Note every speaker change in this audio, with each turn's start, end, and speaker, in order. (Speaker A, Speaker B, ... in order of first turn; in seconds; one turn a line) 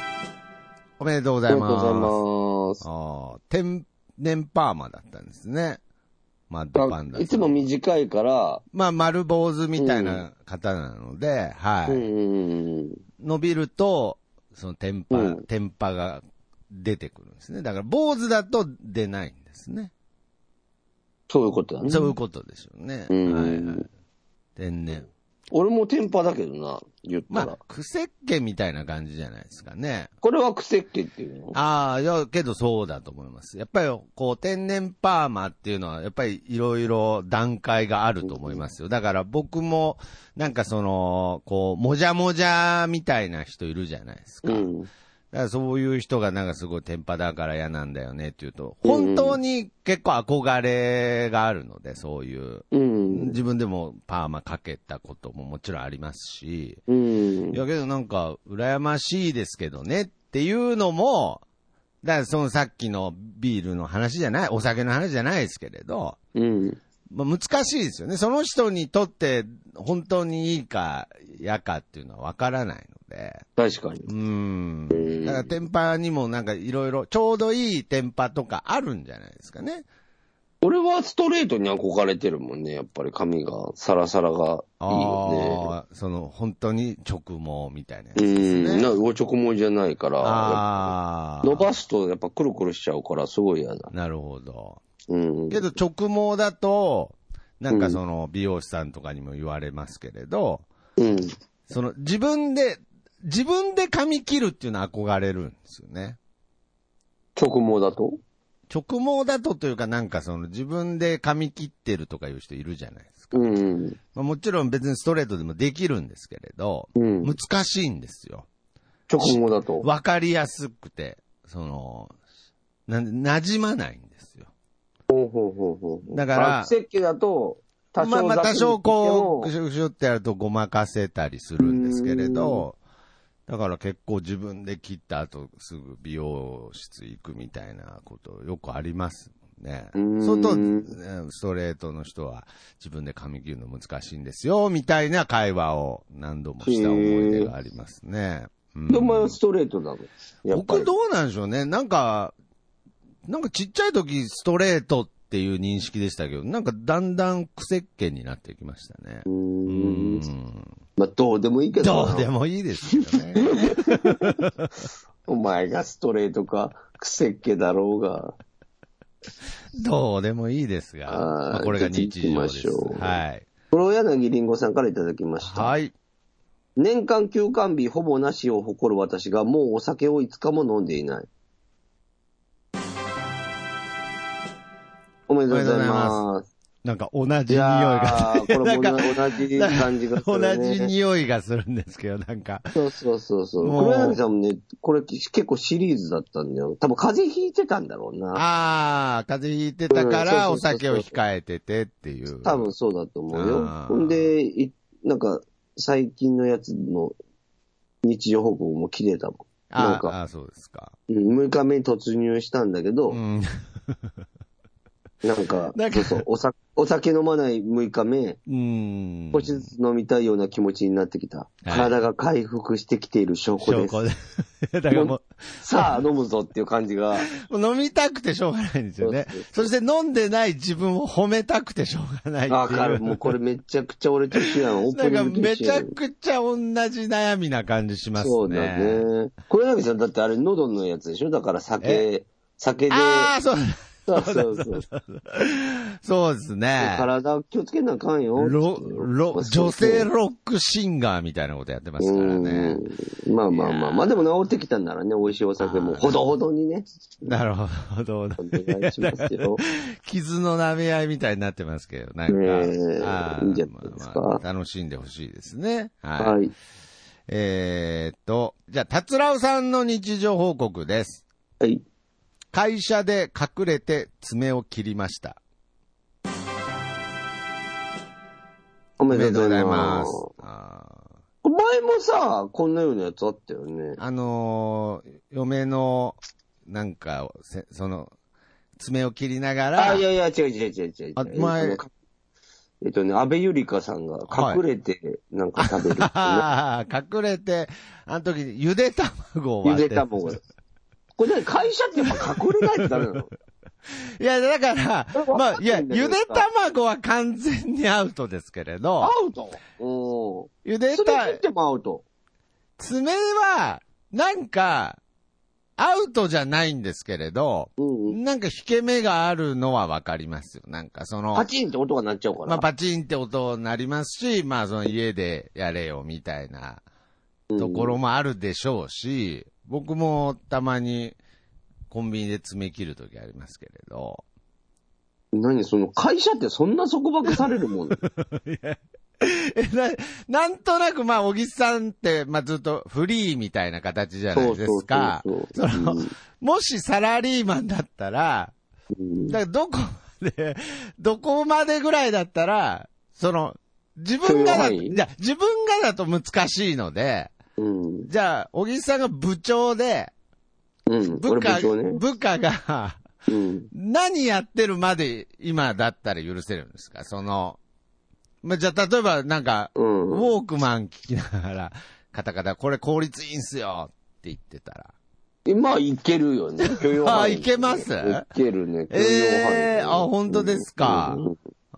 Speaker A: 1.0-2.2
Speaker B: 1.5-2.8
Speaker A: 2.8-5.8
Speaker A: 6.5-7.7
Speaker B: 6.8-8.6
Speaker A: 8.7-12.1
Speaker B: 9.8-10.2
Speaker B: 11.9-13.0
Speaker A: 13.2-19.9
Speaker B: 15.1-15.4
Speaker B: 21.3-22.1
Speaker A: 21.9-23.9
Speaker B: 23.1-23.9
Speaker A: 24.6-25.1
Speaker B: 25.5-27.6
Speaker A: 27.3-30.1
Speaker B: 30.2-31.6
Speaker A: 31.5-44.7
Speaker B: 38.3-38.6
Speaker B: 44.4-44.9
Speaker A: 45.3-56.8
Speaker B: 48.8-49.4
Speaker B: 52.7-53.4
Speaker B: 56.9-57.6
Speaker A: 57.5-61.4
Speaker A: 62.0-66.2
Speaker B: 66.3-66.8
Speaker A: 67.1-73.5
Speaker B: 73.6-74.1
Speaker A: 74.1-79.8
Speaker B: 74.9-75.5
Speaker B: 80.6-85.7
Speaker A: 84.8-88.9
Speaker B: 88.2-93.9
Speaker A: 90.2-91.7
Speaker A: 93.9-94.8
Speaker B: 95.1-95.7
Speaker A: 95.5-100.7
Speaker B: 97.7-98.0
Speaker B: 101.0-101.3
Speaker A: 101.7-106.2
Speaker B: 107.4-108.2
Speaker A: 108.7-113.6
Speaker B: 113.3-114.0
Speaker A: 114.1-118.5
Speaker B: 117.0-117.3
Speaker B: 119.1-119.9
Speaker A: 119.2-122.1
Speaker A: 122.9-124.5
Speaker B: 125.1-129.5
Speaker A: 126.1-126.7
Speaker A: 128.0-132.8
Speaker B: 131.6-132.7
Speaker A: 133.5-149.4
Speaker B: 139.9-140.9
Speaker B: 146.6-147.5
Speaker B: 148.9-150.9
Speaker A: 150.5-152.3
Speaker A: 153.3-160.7
Speaker B: 159.3-160.2
Speaker B: 161.0-162.3
Speaker A: 161.8-164.7
Speaker B: 163.3-164.4
Speaker B: 165.3-168.4
Speaker A: 169.8-173.5
Speaker B: 171.1-173.2
Speaker B: 173.7-175.7
Speaker A: 175.4-175.9
Speaker B: 176.8-181.3
Speaker B: 185.3-186.5
Speaker A: 185.5-186.2
Speaker A: 186.8-192.8
Speaker B: 187.5-190.9
Speaker B: 192.7-198.4
Speaker A: 193.6-194.2
Speaker A: 198.3-202.7
Speaker B: 199.9-201.1
Speaker B: 202.4-207.2
Speaker A: 203.3-204.3
Speaker B: 208.0-210.2
Speaker A: 209.7-210.9
Speaker B: 211.1-213.2
Speaker A: 213.1-213.5
Speaker B: 215.2-218.4
Speaker A: 215.7-216.2
Speaker A: 218.5-219.7
Speaker B: 219.3-224.0
Speaker A: 221.7-221.9
Speaker A: 223.6-226.0
Speaker B: 224.9-227.3
Speaker A: 227.3-233.3
Speaker B: 229.0-229.7
Speaker B: 232.5-235.9
Speaker A: 234.4-239.1
Speaker B: 238.2-243.3
Speaker A: 241.8-242.1
Speaker A: 242.9-247.1
Speaker B: 244.1-244.9
Speaker B: 246.8-250.1
Speaker A: 248.4-252.8
Speaker B: 252.0-257.3
Speaker A: 253.5-254.2
Speaker A: 255.6-256.2
Speaker A: 257.2-266.4
Speaker B: 258.4-259.6
Speaker B: 262.3-264.4
Speaker B: 266.2-266.5
Speaker A: 267.3-271.2
Speaker A: 272.5-275.4
Speaker B: 279.0-280.3
Speaker A: 279.1-281.1
Speaker B: 281.4-284.0
Speaker A: 284.0-288.1
Speaker A: 288.8-290.0
Speaker B: 289.8-291.9
Speaker A: 291.2-291.8
Speaker B: 292.8-296.5
Speaker A: 294.3-294.6
Speaker A: 295.6-300.4
Speaker B: 299.6-300.4
Speaker B: 301.2-303.3
Speaker A: 303.9-309.1
Speaker B: 305.1-306.5
Speaker B: 309.0-312.0
Speaker A: 310.6-311.4
Speaker A: 312.8-315.0
Speaker A: 315.8-321.5
Speaker B: 317.8-318.2
Speaker B: 321.3-322.7
Speaker A: 322.4-326.8
Speaker B: 327.5-328.0
Speaker A: 327.6-331.2
Speaker A: 331.9-334.2
Speaker B: 335.3-338.0
Speaker A: 338.0-348.5
Speaker B: 344.3-346.1
Speaker B: 348.9-349.4
Speaker A: 349.3-357.4
Speaker B: 354.2-355.0
Speaker B: 357.6-358.1
Speaker A: 358.1-360.1
Speaker B: 360.9-362.0
Speaker A: 361.2-363.0
Speaker B: 363.3-363.7
Speaker A: 363.7-367.6
Speaker A: 368.4-374.9
Speaker B: 369.8-370.3
Speaker B: 375.5-381.4
Speaker A: 376.6-378.3
Speaker A: 378.9-381.2